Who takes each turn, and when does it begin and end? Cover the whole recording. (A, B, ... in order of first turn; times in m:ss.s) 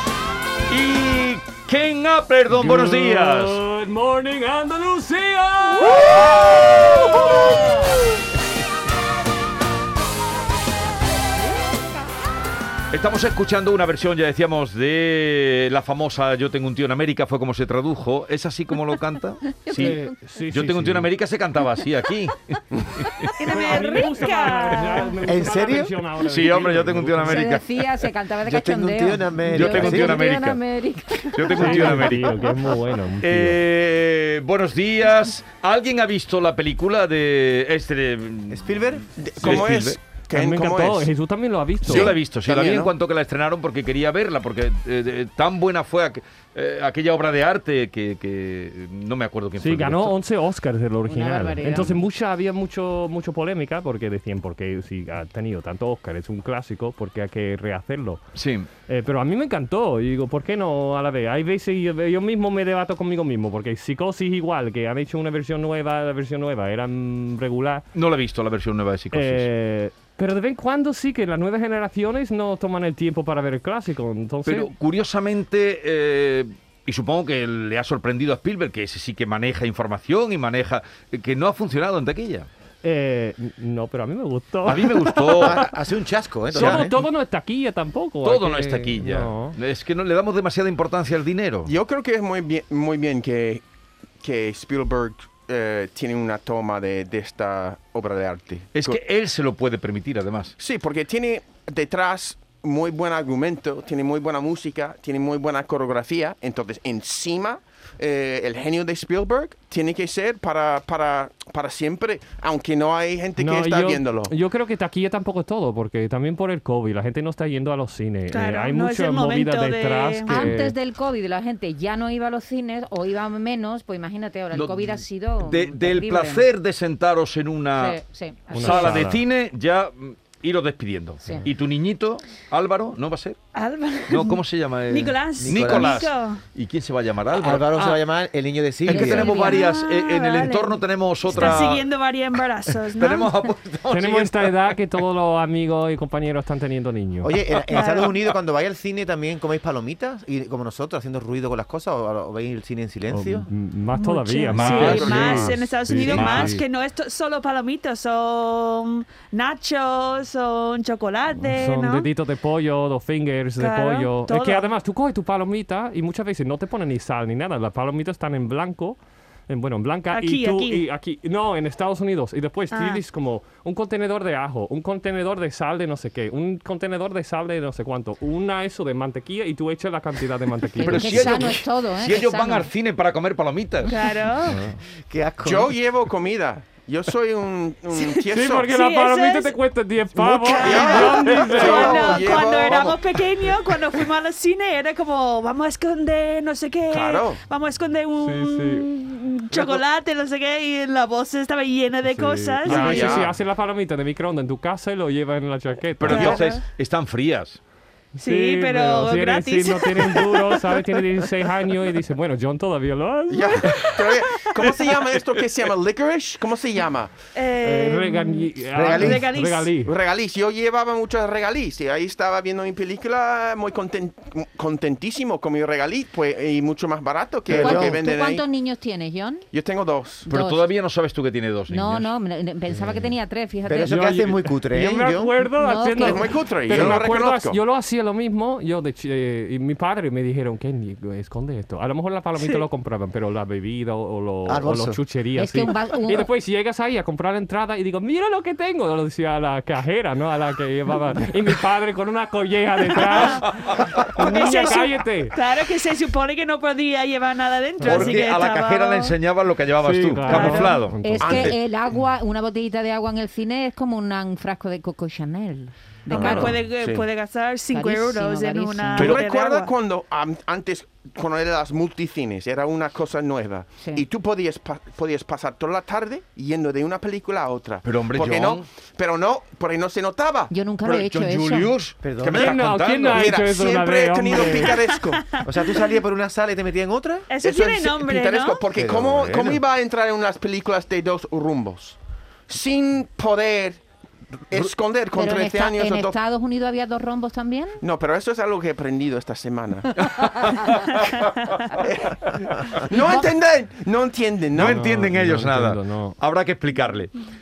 0:00.7-0:03.6 A
0:02.5-0:07.6 B
0:05.8-0:07.3 A
0:12.9-0:23.3 A
0:19.4-0:20.4 C
0:19.8-0:21.1 B
0:23.4-0:25.1 D
0:23.4-0:27.5 B
0:25.2-0:26.0 E
0:26.2-0:27.9 A
0:27.2-0:31.9 C
0:28.4-0:30.3 E
0:29.5-0:30.6 A
0:31.2-0:32.6 A
0:31.5-0:33.6 B
0:33.2-0:38.6 A
0:38.5-0:39.0 E
0:39.2-0:41.1 F
0:39.4-0:40.0 A
0:40.3-0:42.1 B
0:41.8-0:42.9 F
0:41.9-0:50.2 A
0:49.6-0:58.2 B
0:51.0-0:52.0 C
0:58.3-0:58.7 A
0:58.9-1:07.8 B
1:07.9-1:09.5 A
1:09.1-1:14.7 B
1:14.4-1:22.5 A
1:22.8-1:25.6 B
1:24.6-1:25.6 A
1:25.4-1:27.0 E
1:26.5-1:29.6 B
1:26.5-1:26.9 A
1:28.2-1:31.7 A
1:31.6-1:33.6 F
1:34.2-1:39.0 F
1:38.7-1:40.5 A
1:40.6-1:54.3 F
1:53.4-2:00.7 B
1:58.3-2:00.5 D
2:00.3-2:06.5 C
2:04.5-2:08.0 A
2:07.7-2:09.1 C
2:08.5-2:09.2 B
2:08.5-2:13.4 A
2:11.2-2:11.5 C
2:13.5-2:16.4 D
2:14.1-2:18.0 A
2:15.4-2:15.9 E
2:17.3-2:19.4 E
2:18.8-2:21.9 A
2:18.9-2:19.7 C
2:19.4-2:23.5 D
2:21.3-2:21.6 E
2:22.8-2:24.5 A
2:23.9-2:27.3 B
2:27.2-2:33.5 E
2:27.7-2:28.2 A
2:33.1-2:36.6 B
2:33.9-2:42.1 D
2:34.5-2:36.6 A
2:41.4-3:01.2 B
2:43.6-2:44.7 D
2:50.1-2:50.8 D
2:52.7-2:53.0 D
3:00.8-3:04.3 A
3:00.8-3:02.7 C
3:03.9-3:04.6 D
3:04.4-3:04.8 B
3:05.1-3:05.7 E
3:05.4-3:08.7 F
3:07.9-3:09.5 D
3:08.3-3:12.2 B
3:10.2-3:13.0 F
3:10.4-3:23.2 D
3:16.9-3:17.4 F
3:18.2-3:18.9 B
3:22.1-3:26.4 B
3:22.6-3:23.3 F
3:26.0-3:27.6 A
3:26.0-3:26.6 D
3:28.1-3:34.5 B
3:28.2-3:30.6 D
3:33.3-3:37.1 F
3:37.3-3:39.7 D
3:37.6-3:39.9 B
3:38.7-3:39.3 E
3:39.8-3:48.4 F
3:47.5-3:48.0 E
3:47.5-3:49.5 C
3:49.5-3:50.3 F
3:50.3-3:50.7 C
3:50.3-3:52.1 A
3:51.7-3:54.3 C
3:53.6-3:55.3 E
3:53.9-4:15.3 B
3:55.6-3:56.4 C
3:56.0-3:57.6 F
3:56.7-3:57.0 E
4:04.4-4:05.0 E
4:05.4-4:06.3 C
4:13.1-4:13.5 D
4:13.3-4:14.3 A
4:14.0-4:19.2 D
4:17.8-4:21.5 A
4:17.8-4:18.2 B
4:19.8-4:21.5 B
4:20.3-4:20.7 D
4:20.3-4:26.6 C
4:21.2-4:21.5 F
4:26.1-4:27.0 F
4:26.1-4:29.7 D
4:27.7-4:29.2 C
4:29.0-4:40.5 F
4:37.8-4:38.6 A
4:40.5-4:41.8 C
4:40.8-4:43.4 A
4:42.0-4:42.5 E
4:42.3-4:44.8 B
4:43.1-4:45.3 F
4:44.7-4:45.4 D
4:45.4-4:47.3 E
4:47.3-4:48.6 D
4:47.4-4:53.8 F
4:48.7-4:49.6 E
4:54.5-4:56.2 F
4:55.1-4:57.8 C
4:57.8-5:00.1 F
5:00.0-5:01.0 A
5:01.7-5:04.8 F
5:02.9-5:03.3 C
5:04.5-5:07.1 A
5:04.6-5:06.2 B